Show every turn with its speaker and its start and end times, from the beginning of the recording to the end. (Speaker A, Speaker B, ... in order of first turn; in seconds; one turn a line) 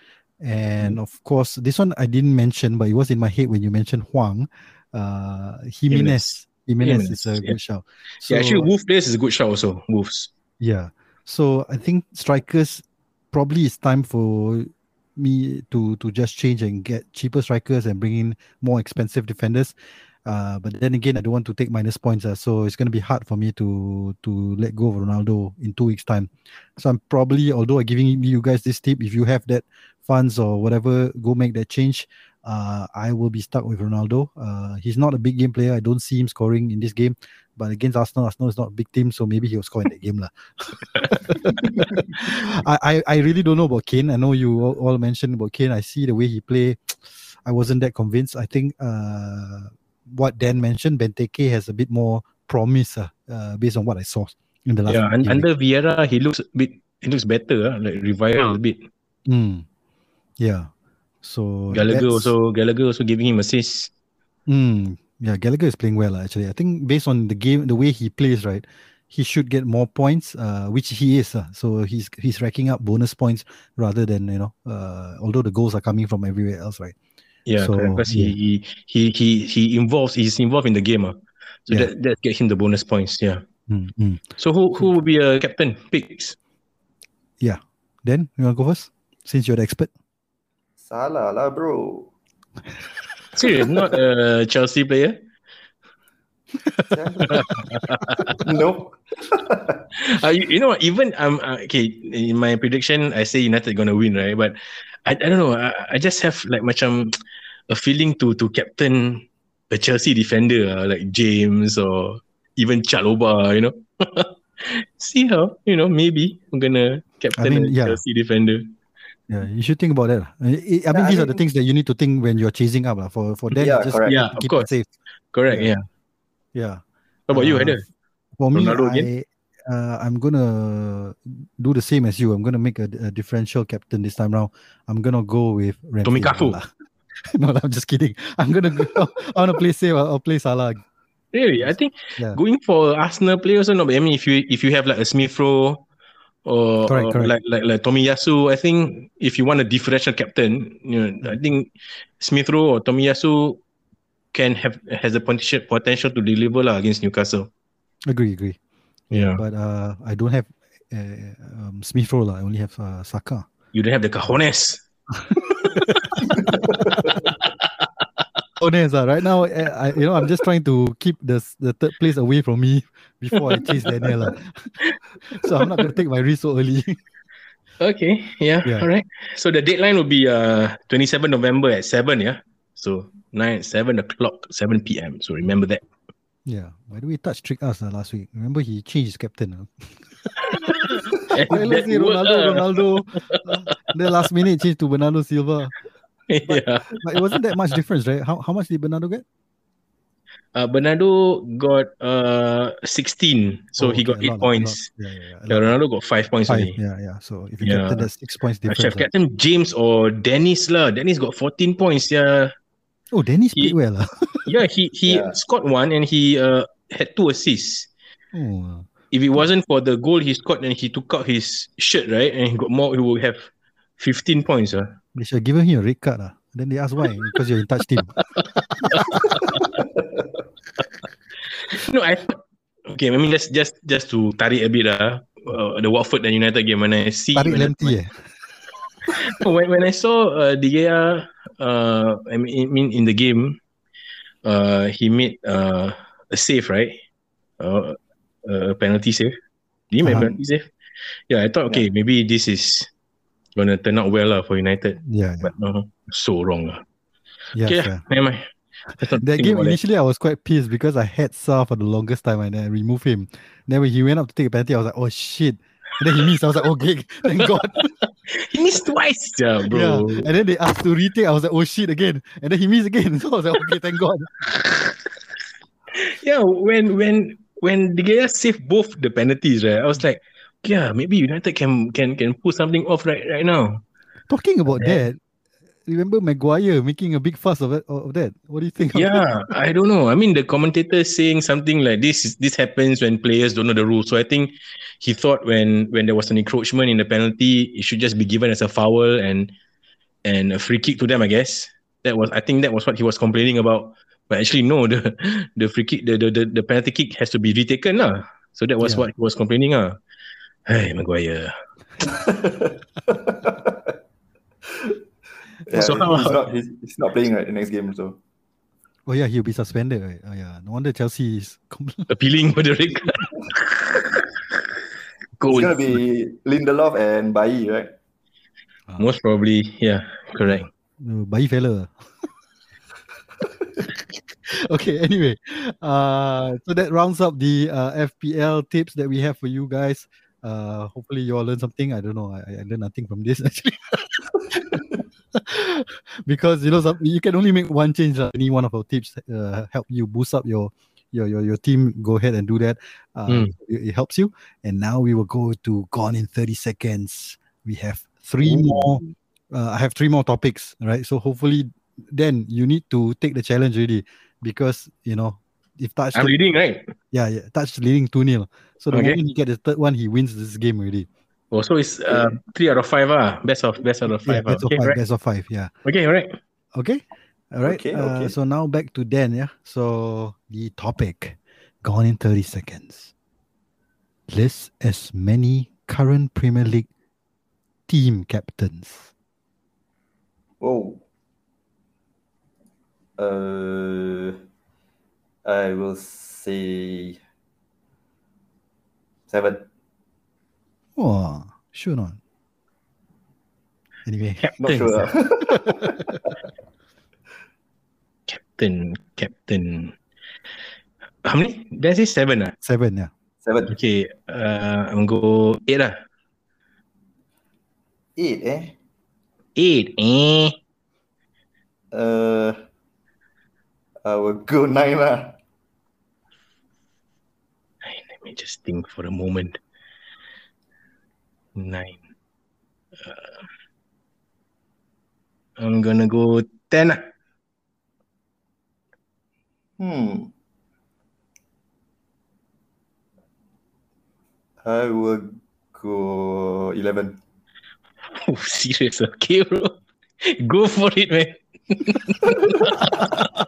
Speaker A: 0.4-8.7
Speaker B: 5.9-7.5
Speaker B: 8.3-10.3
Speaker A: 10.6-55.4
Speaker B: 54.9-58.9
Speaker A: 59.3-59.6
Speaker A: 60.4-60.7
Speaker A: 61.2-62.3
Speaker B: 61.7-63.9
Speaker A: 64.5-76.9
Speaker B: 77.5-83.4
Speaker A: 77.6-78.3
Speaker A: 83.7-84.2
Speaker B: 84.4-86.4
Speaker A: 87.4-89.9
Speaker C: 90.8-92.1
Speaker B: 93.3-95.2
Speaker A: 96.8-97.6
Speaker C: 96.9-97.5
Speaker B: 97.3-98.4
Speaker C: 98.4-99.8
Speaker B: 100.0-107.2
Speaker B: 107.7-118.7
Speaker A: 117.3-118.0
Speaker A: 119.3-124.9
Speaker C: 120.9-121.4
Speaker C: 123.5-124.2
Speaker B: 124.0-124.7
Speaker B: 125.3-125.8
Speaker A: 126.5-127.8
Speaker B: 127.3-127.8
Speaker A: 128.4-136.7
Speaker B: 128.5-129.1
Speaker B: 136.0-136.6
Speaker A: 137.3-140.8
Speaker B: 141.3-145.8
Speaker A: 141.6-142.4
Speaker B: 146.4-151.7
Speaker A: 146.9-147.3
Speaker B: 152.2-153.6
Speaker B: 154.3-157.5
Speaker A: 158.1-158.6
Speaker B: 159.1-159.4
Speaker A: 159.1-163.4
Speaker B: 163.7-164.8
Speaker A: 165.1-167.1
Speaker C: 166.6-167.1
Speaker A: 168.6-177.0
Speaker B: 177.8-185.8
Speaker A: 186.4-195.7
Speaker B: 190.6-193.4
Speaker B: 196.3-197.3
Speaker A: 196.5-199.2
Speaker B: 200.5-204.8
Speaker A: 203.8-205.8
Speaker B: 205.5-206.8
Speaker A: 206.5-209.1
Speaker B: 207.6-208.1
Speaker B: 208.7-212.5
Speaker A: 213.1-214.5
Speaker B: 214.4-217.9
Speaker C: 215.1-215.4
Speaker A: 218.3-218.9
Speaker B: 219.1-225.0
Speaker A: 225.1-229.6
Speaker B: 228.9-229.6
Speaker B: 231.7-238.0
Speaker A: 237.3-238.2
Speaker B: 239.1-243.6
Speaker B: 244.4-247.0
Speaker B: 247.6-249.3
Speaker B: 249.9-250.7
Speaker A: 250.0-250.3
Speaker C: 250.1-250.4
Speaker B: 251.3-252.9
Speaker B: 253.6-256.8
Speaker A: 255.0-255.5
Speaker A: 257.5-258.0
Speaker B: 257.6-259.8
Speaker A: 258.9-267.9
Speaker B: 268.0-270.3
Speaker A: 269.7-274.4
Speaker B: 275.9-283.8
Speaker A: 284.3-285.2
Speaker B: 284.7-285.0
Speaker A: 285.9-289.2
Speaker B: 288.9-299.5
Speaker B: 300.2-310.0
Speaker A: 308.8-309.1
Speaker B: 310.7-311.5
Speaker C: 312.1-313.9
Speaker C: 315.7-318.2
Speaker B: 315.7-316.4
Speaker A: 319.1-322.1
Speaker B: 322.1-324.2
Speaker B: 325.4-326.0
Speaker C: 325.5-327.9
Speaker B: 329.0-330.7
Speaker A: 330.4-331.9
Speaker A: 334.5-344.8
Speaker A: 345.3-366.4
Speaker B: 353.3-353.5
Speaker B: 358.4-359.1
Speaker B: 366.1-366.9
Speaker A: 367.1-371.1
Speaker B: 368.9-369.2
Speaker B: 371.5-375.0
Speaker A: 374.2-375.7
Speaker B: 375.8-376.4
Speaker A: 376.7-383.1
Speaker C: 377.6-378.3
Speaker A: 384.3-386.9
Speaker A: 387.9-389.1
Speaker C: 390.6-391.0
Speaker C: 393.2-394.4
Speaker C: 395.4-397.2
Speaker C: 399.3-399.7
Speaker A: 400.9-402.2
Speaker A: 404.1-404.5
Speaker B: 404.4-404.9
Speaker C: 404.6-406.3
Speaker A: 405.4-406.1
Speaker B: 408.3-409.9
Speaker B: 411.2-412.5
Speaker A: 412.6-413.1
Speaker C: 413.4-413.7
Speaker B: 413.7-415.9
Speaker C: 418.1-418.8
Speaker B: 419.6-420.6
Speaker C: 421.9-422.6
Speaker C: 424.0-425.4
Speaker B: 427.8-429.6
Speaker B: 431.6-432.0
Speaker B: 433.0-433.3
Speaker B: 435.6-437.1
Speaker C: 439.8-440.3
Speaker C: 444.6-447.2
Speaker B: 448.1-453.2
Speaker A: 452.8-453.1